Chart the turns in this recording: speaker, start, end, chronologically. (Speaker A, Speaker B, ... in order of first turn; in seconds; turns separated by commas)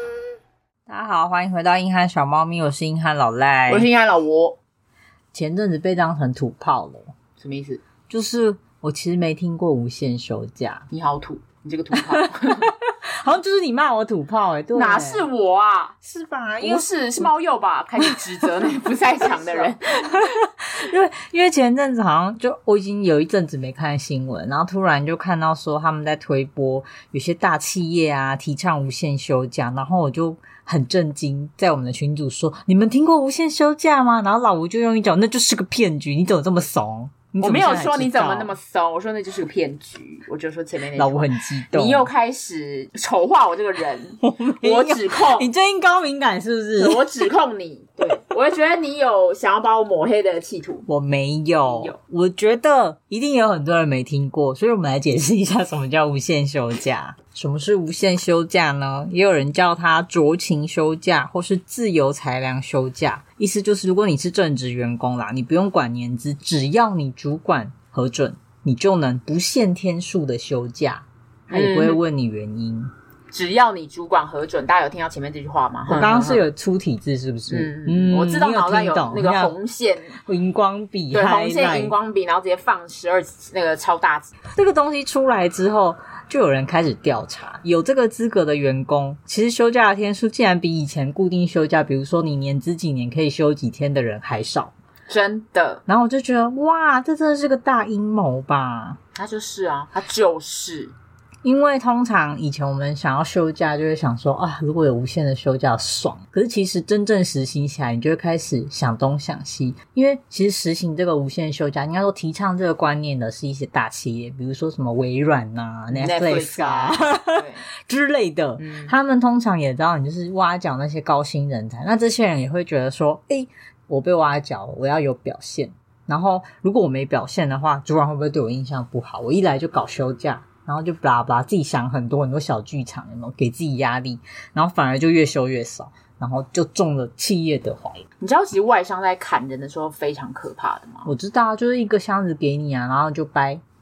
Speaker A: 0.9-3.9, Speaker B: 3.7-4.6, Speaker A: 5.3-7.1, Speaker B: 7.4-7.8, Speaker A: 8.1-10.9, Speaker B: 10.9-12.7, Speaker A: 11.9-15.3, Speaker B: 14.8-15.9, Speaker A: 16.0-17.3, Speaker B: 16.6-20.2, Speaker A: 18.0-38.6, Speaker B: 37.4-45.5, Speaker A: 40.9-42.1, Speaker A: 44.2-47.3, Speaker B: 46.8-50.9, Speaker A: 50.9-72.9, Speaker B: 51.7-52.0, Speaker B: 71.5-72.0, Speaker B: 73.3-76.5, Speaker A: 75.9-79.5, Speaker B: 77.5-80.2, Speaker A: 80.2-82.0, Speaker B: 81.1-84.3, Speaker A: 84.5-94.7, Speaker B: 95.1-95.8, Speaker A: 95.9-99.0, Speaker B: 99.2-100.9, Speaker A: 101.4-138.1, Speaker B: 115.9-117.7, Speaker B: 118.6-118.9, Speaker B: 138.2-141.1, Speaker A: 141.1-143.6